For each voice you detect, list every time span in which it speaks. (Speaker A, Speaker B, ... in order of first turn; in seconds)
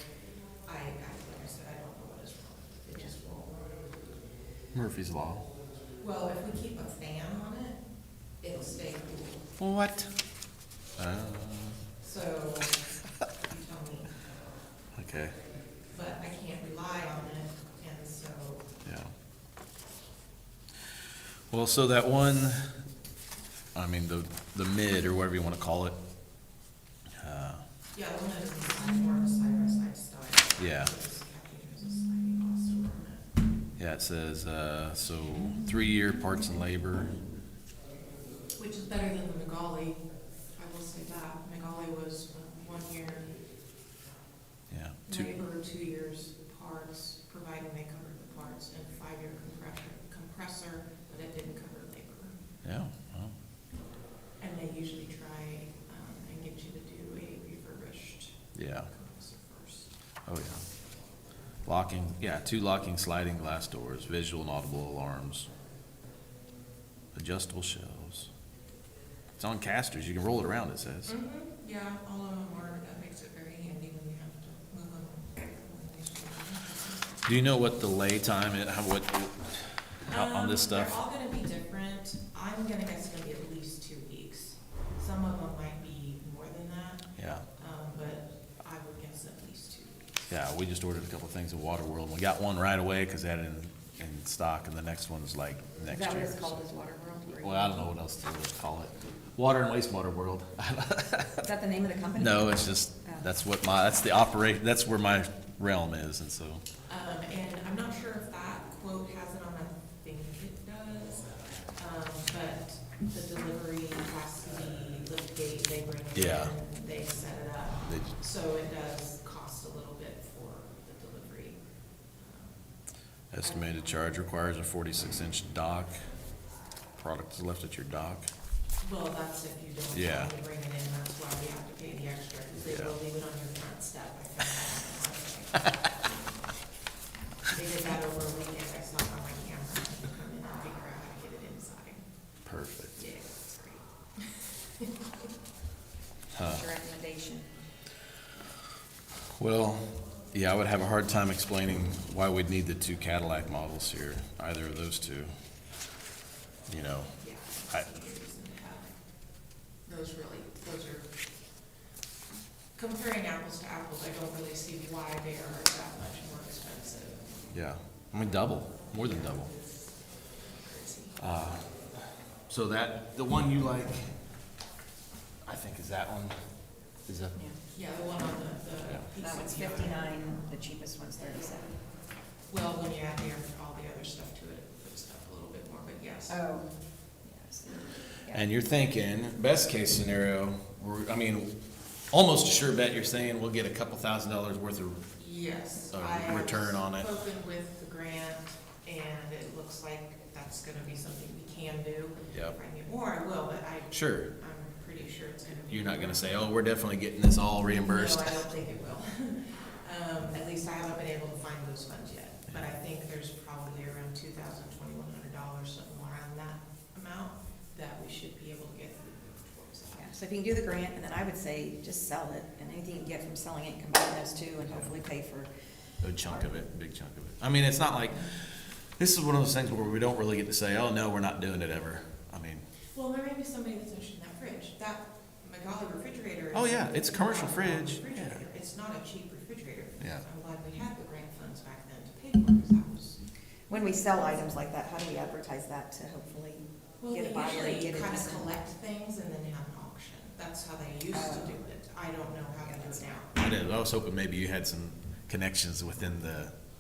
Speaker A: 0.7-3.7, 6.0-9.5, 12.0-12.9, 13.4-14.2, 15.9-18.7, 27.9-33.2, 38.6-43.3, 45.1-52.4, 54.4-59.9, 71.1-77.4, 80.1-90.1, 106.9-121.6, 122.1-122.7, 123.4-124.0, 128.8-136.3, 137.4-142.1, 142.9-145.2, 157.2-159.0, 159.8-161.1, 162.8-167.3, 169.0-169.4, 170.4-171.2, 177.7-180.2, 182.5-186.4, 195.2-206.5, 207.7-220.1, 232.9-243.2, 247.0-253.3
Speaker B: 4.7-5.5, 9.6-10.1, 11.0-11.8, 14.9-15.4, 18.9-19.1, 21.5-22.7, 23.8-26.0, 27.2-27.6, 30.6-30.9, 33.8-37.2, 44.7-45.3, 52.6-53.3, 58.5-58.9, 60.3-60.6, 61.6-65.5, 67.1-68.3, 69.4-71.1, 77.3-81.0, 87.2-87.4, 90.3-96.6, 97.4-101.5, 102.2-106.6, 116.1-116.5, 117.9-118.2, 123.3-126.0, 127.0-128.3, 129.9-130.3, 132.7-132.9, 142.5-142.9, 146.3-146.7, 149.4-155.3, 156.7-157.1, 167.5-169.5, 171.2-174.1, 175.4-176.3, 177.1-177.4, 188.3-191.6, 192.1-195.1, 195.9-197.1, 203.9-204.3, 205.7-208.5, 224.6-224.9, 226.0-232.7, 236.5-238.4, 253.3-256.5
Speaker C: 95.9-97.9, 101.4-103.3, 146.4-147.5, 179.2-181.8, 186.3-186.7, 187.2-188.4, 219.9-225.5, 243.7-248.5, 251.1-251.6, 252.7-252.9